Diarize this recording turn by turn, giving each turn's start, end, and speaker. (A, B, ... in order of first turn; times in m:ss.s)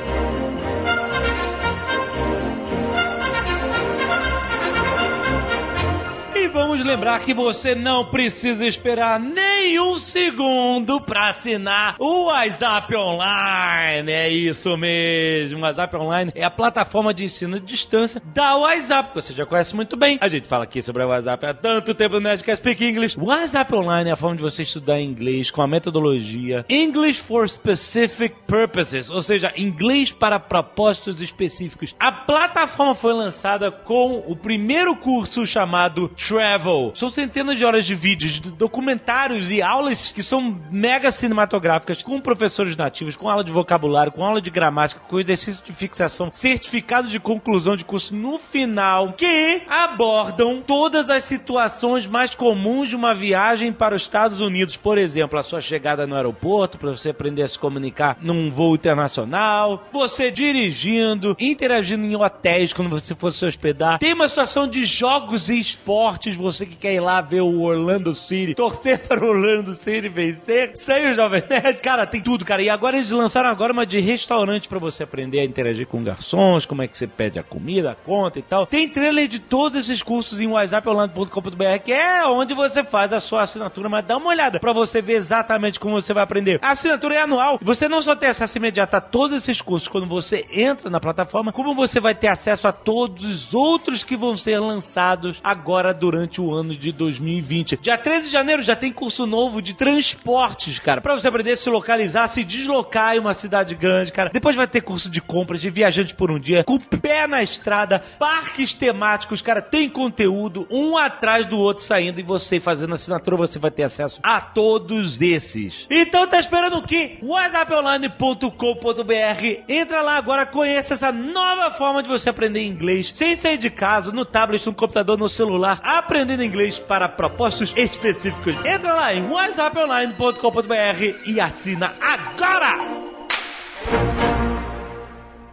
0:06.3-2:12.8 A